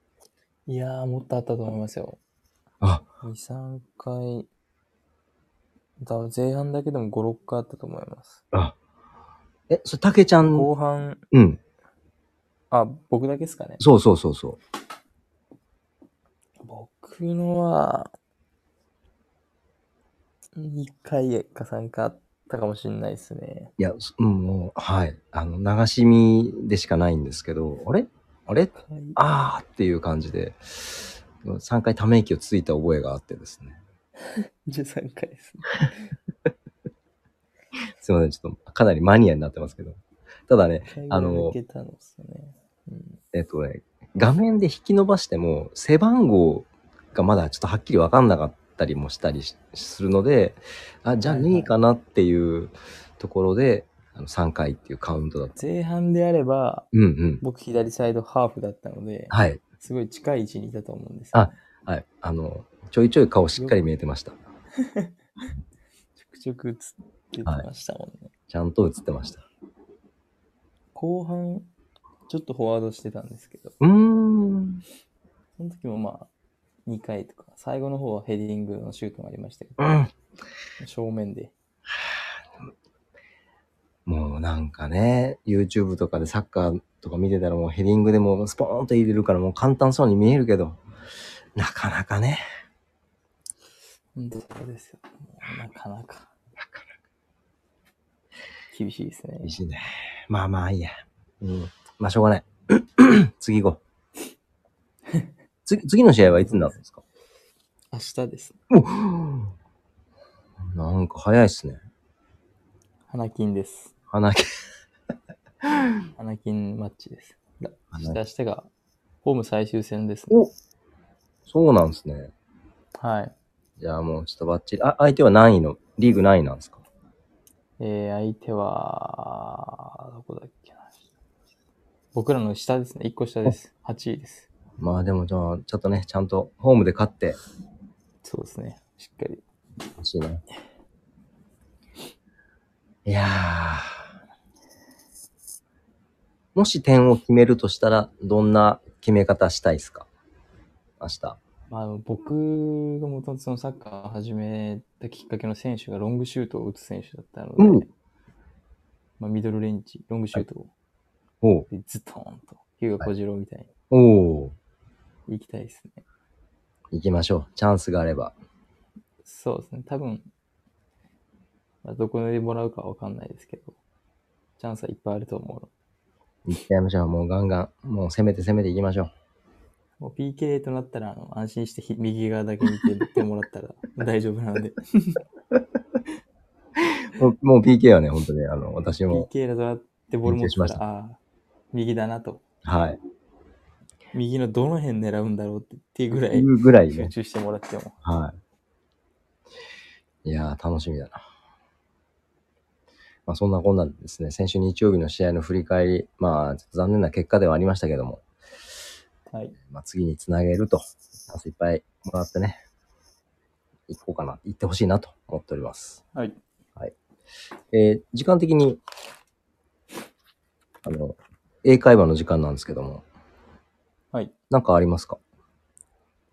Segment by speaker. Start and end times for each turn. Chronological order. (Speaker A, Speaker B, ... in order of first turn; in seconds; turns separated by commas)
Speaker A: 0.7-2.2, Speaker A: 3.2-4.5, Speaker A: 6.0-8.4, Speaker B: 9.7-10.7, Speaker A: 10.5-11.2, Speaker B: 11.3-11.6, Speaker A: 12.7-13.8, Speaker B: 13.8-14.6, Speaker A: 16.6-18.1, Speaker A: 20.6-23.7, Speaker B: 23.8-33.8, Speaker A: 28.8-29.2, Speaker A: 34.7-35.9, Speaker B: 38.0-41.6, Speaker A: 40.9-43.2, Speaker B: 43.3-55.6, Speaker A: 51.2-51.7, Speaker A: 55.6-56.9, Speaker B: 56.9-57.4, Speaker A: 57.4-61.5, Speaker B: 59.3-59.6, Speaker B: 61.3-64.4, Speaker A: 63.6-63.8, Speaker A: 64.8-65.1, Speaker A: 66.2-68.3, Speaker B: 68.5-69.4, Speaker A: 71.0-71.7, Speaker A: 72.3-73.8, Speaker B: 73.8-74.8, Speaker A: 75.6-76.3, Speaker A: 76.9-79.8, Speaker B: 79.8-80.1, Speaker A: 80.8-81.5, Speaker B: 84.1-90.8, Speaker B: 91.6-92.4, Speaker A: 94.2-96.3, Speaker A: 98.7-99.6, Speaker B: 99.4-103.8, Speaker B: 105.7-107.0, Speaker A: 106.3-106.8, Speaker A: 107.9-108.6, Speaker B: 108.7-109.5, Speaker B: 110.7-111.8, Speaker A: 113.1-113.9, Speaker B: 114.1-114.4, Speaker A: 116.2-118.7, Speaker B: 117.9-118.2, Speaker A: 119.2-120.4, Speaker B: 121.5-122.3, Speaker A: 123.0-123.3, Speaker B: 123.8-126.8, Speaker A: 127.8-131.0, Speaker A: 132.1-134.5, Speaker B: 134.8-137.4, Speaker A: 138.2-139.4, Speaker B: 140.0-140.4, Speaker B: 143.1-144.1, Speaker B: 146.6-150.1, Speaker B: 151.0-151.4, Speaker A: 151.7-157.9, Speaker B: 157.6-157.8, Speaker A: 159.2-160.7, Speaker B: 161.4-161.7, Speaker A: 161.7-163.7, Speaker B: 163.9-164.6, Speaker A: 165.3-166.0, Speaker B: 166.9-168.3, Speaker A: 169.2-170.3, Speaker A: 171.8-173.8, Speaker A: 174.6-175.7, Speaker B: 176.5-179.1, Speaker A: 180.0-185.2, Speaker B: 187.2-189.3, Speaker A: 189.1-191.2, Speaker B: 190.2-190.8, Speaker A: 191.7-192.4, Speaker B: 192.7-193.0, Speaker A: 194.1-198.0, Speaker B: 196.3-197.1, Speaker B: 198.0-198.4, Speaker B: 200.2-201.2, Speaker B: 203.3-208.2, Speaker A: 209.3-209.6, Speaker B: 209.7-212.6, Speaker B: 213.9-216.0, Speaker B: 217.7-218.8, Speaker B: 220.8-223.1, Speaker B: 224.5-225.2